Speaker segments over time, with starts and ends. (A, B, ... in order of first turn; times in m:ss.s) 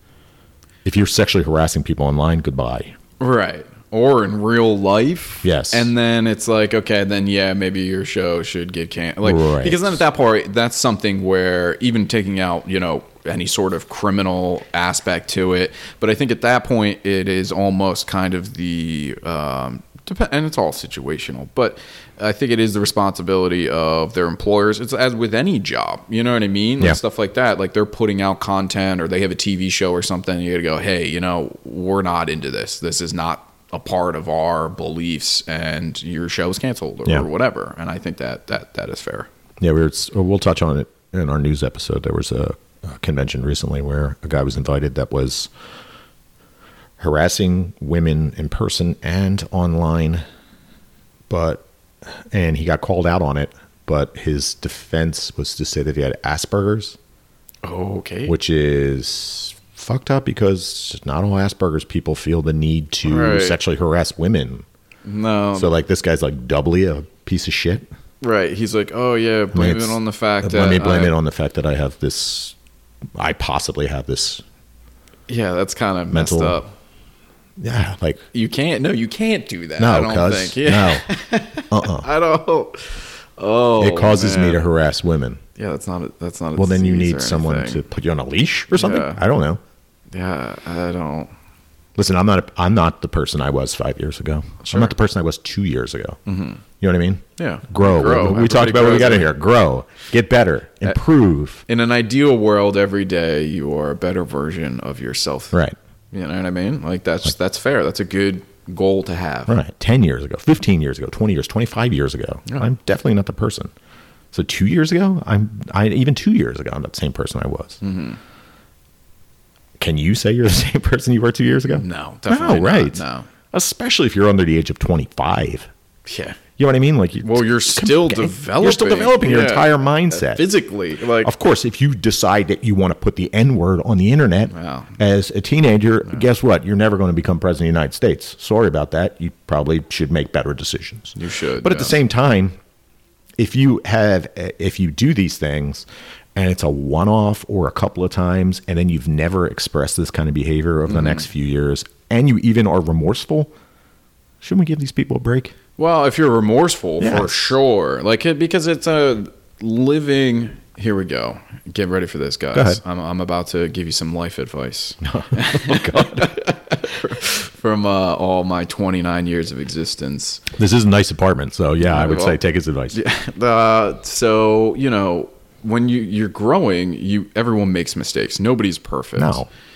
0:00.8-0:02.9 A
0:03.2-0:39.3 B
0:05.4-0:05.9 A
0:09.2-0:10.0 A
0:39.6-0:45.5 A
0:47.0-0:50.2 A
0:51.3-0:57.0 A
0:57.6-0:58.3 B
0:58.2-1:04.6 A
1:03.0-1:03.6 B
1:05.0-1:05.7 B
1:05.5-1:07.8 A
1:08.2-1:11.1 B
1:09.5-1:12.5 A
1:13.2-1:14.4 A
1:15.3-1:16.7 B
1:16.1-1:16.6 A
1:17.6-1:18.2 A
1:18.3-1:24.6 B
1:19.8-1:21.1 A
1:21.7-1:22.1 A
1:23.8-1:25.4 A
1:25.6-1:27.8 B
1:26.6-1:29.6 A
1:28.7-1:29.2 B
1:30.1-1:31.3 B
1:32.0-1:36.2 A
1:34.6-1:34.9 B
1:36.2-1:36.6 B
1:36.8-1:41.6 A
1:37.4-1:39.3 B
1:41.7-1:45.6 B
1:46.1-1:49.5 B
1:49.5-1:53.7 A
1:54.3-1:57.8 A
1:57.8-1:58.2 B
1:59.8-2:05.7 A
2:01.7-2:03.3 B
2:06.0-2:06.4 B
2:06.6-2:10.5 A
2:07.2-2:11.3 B
2:11.2-2:22.5 A
2:14.5-2:15.0 B
2:21.1-2:22.0 B
2:23.4-2:33.5 A
2:30.9-2:31.2 B
2:34.4-2:35.5 A
2:35.8-2:50.4 B
2:37.0-2:37.3 A
2:42.5-2:42.8 A
2:45.0-2:46.3 A
2:50.6-2:53.0 A
2:51.8-2:52.4 B
2:52.9-2:59.4 B
2:59.2-2:59.5 A